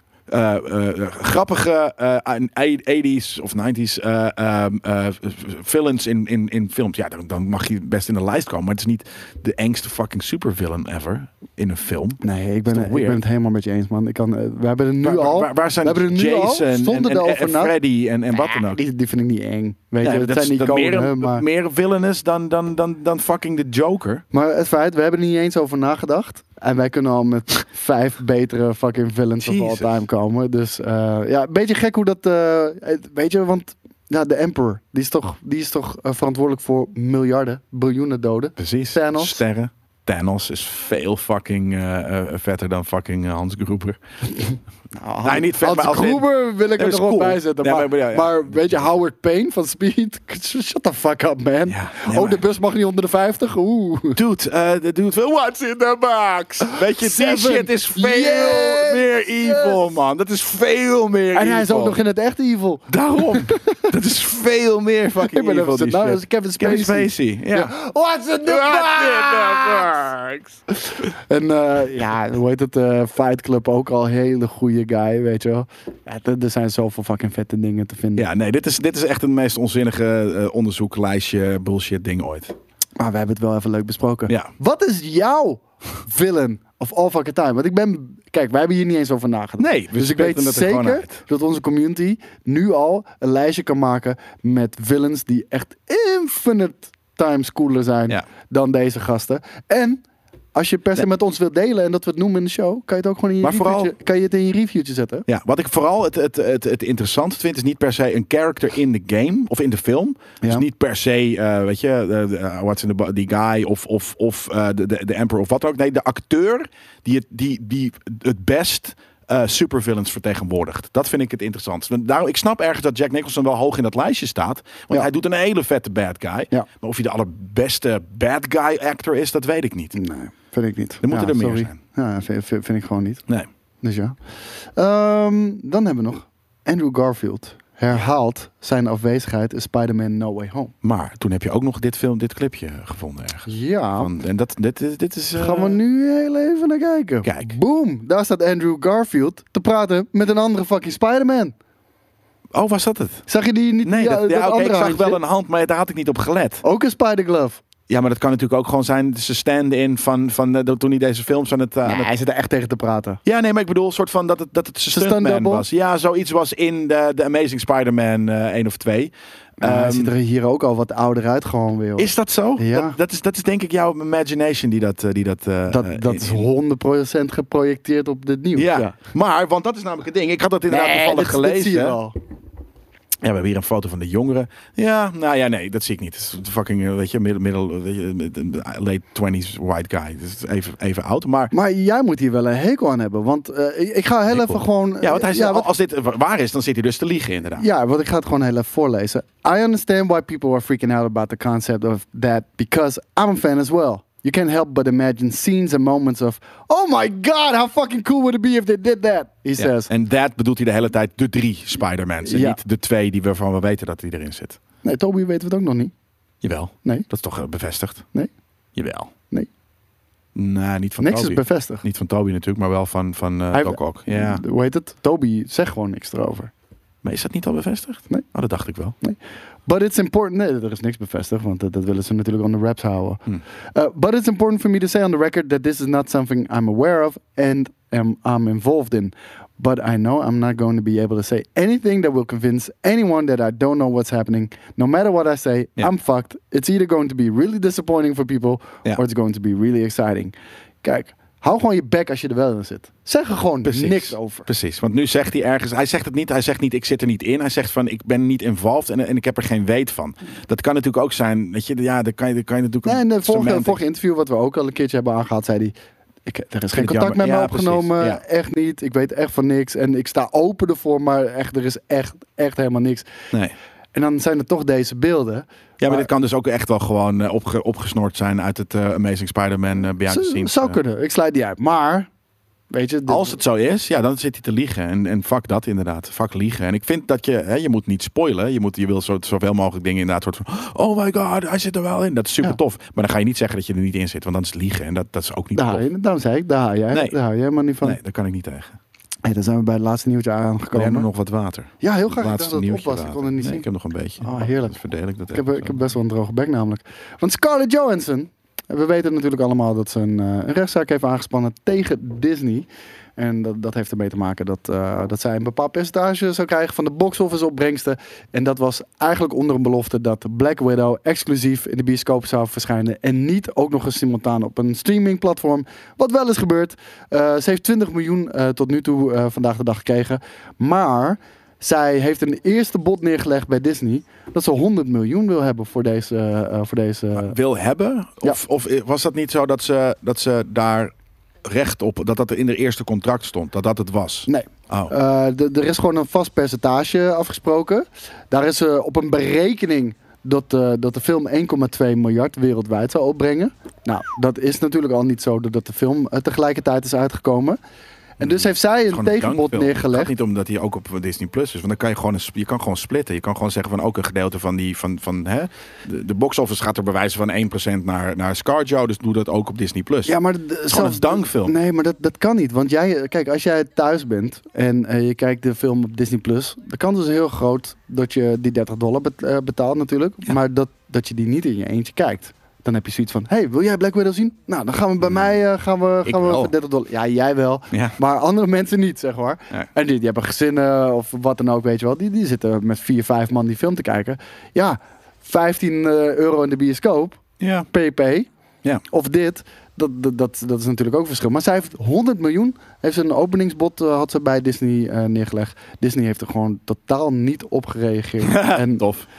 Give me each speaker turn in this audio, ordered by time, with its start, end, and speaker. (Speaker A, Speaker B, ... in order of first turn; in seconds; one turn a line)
Speaker A: 0.3-13.2
Speaker B: 12.2-17.7
Speaker A: 15.0-18.8
Speaker B: 18.3-21.4
Speaker A: 20.0-24.2
Speaker B: 24.3-39.4
Speaker A: 29.4-29.9
Speaker A: 38.6-44.0
Speaker B: 45.0-54.2
Speaker A: 45.2-48.9
Speaker A: 51.7-52.4
Speaker A: 54.1-62.0
Speaker B: 56.6-59.8
Speaker B: 61.3-63.9
Speaker A: 62.9-67.7
Speaker B: 65.2-69.9
Speaker A: 68.4-70.6
Speaker B: 70.9-78.3
Speaker A: 78.2-82.5
Speaker B: 83.0-100.0
Speaker A: 89.6-91.2
Speaker B: 100.5-105.3
Speaker A: 103.4-103.9
Speaker A: 105.3-130.0
Speaker B: 129.9-133.2
Speaker A: 131.0-131.8
Speaker B: 133.8-134.2
Speaker B: 134.8-140.7
Speaker A: 140.8-145.8
Speaker B: 143.5-144.1
Speaker B: 145.3-151.6
Speaker A: 147.2-147.6
Speaker A: 152.5-153.3
Speaker B: 153.3-155.2
Speaker A: 153.8-156.6
Speaker B: 156.6-157.6
Speaker A: 157.9-162.1
Speaker B: 161.8-163.2
Speaker A: 163.2-170.1
Speaker B: 164.9-165.7
Speaker B: 169.6-173.0
Speaker A: 172.0-176.5
Speaker B: 175.7-178.9
Speaker A: 178.6-182.0
Speaker B: 180.7-182.2
Speaker A: 183.2-191.5
Speaker B: 191.5-195.7
Speaker A: 194.3-197.7
Speaker B: 197.6-209.9
Speaker A: 209.6-214.6
Speaker B: 212.2-212.6
Speaker B: 214.8-215.9
Speaker A: 216.4-218.1
Speaker A: 218.8-219.1
Speaker A: 220.3-224.4
Speaker B: 221.0-221.8
Speaker B: 223.5-226.5
Speaker A: 227.0-229.0
Speaker B: 229.0-233.2
Speaker B: 233.7-254.5
Speaker A: 253.7-263.8
Speaker B: 262.9-265.7
Speaker B: 266.3-273.1
Speaker A: 266.7-268.2
Speaker B: 273.9-276.1
Speaker A: 275.8-280.8
Speaker B: 280.1-282.1
Speaker B: 282.7-283.4
Speaker A: 283.1-295.9
Speaker B: 295.6-298.0
Speaker A: 296.9-297.2
Speaker A: 297.8-298.8
Speaker B: 299.2-301.1
Speaker A: 300.7-305.7
Speaker B: 301.8-303.7
Speaker B: 304.2-337.4
Speaker A: 337.1-340.9
Speaker A: 341.4-344.9
Speaker B: 344.3-357.6
Speaker B: 358.2-360.1
Speaker A: 358.2-370.1
Speaker B: 370.1-398.3
Speaker A: 370.7-371.6
Speaker A: 385.0-385.3
Speaker A: 386.1-386.5
Speaker A: 387.7-388.0
Speaker A: 397.4-397.7
Speaker B: 398.9-408.8
Speaker A: 408.2-409.1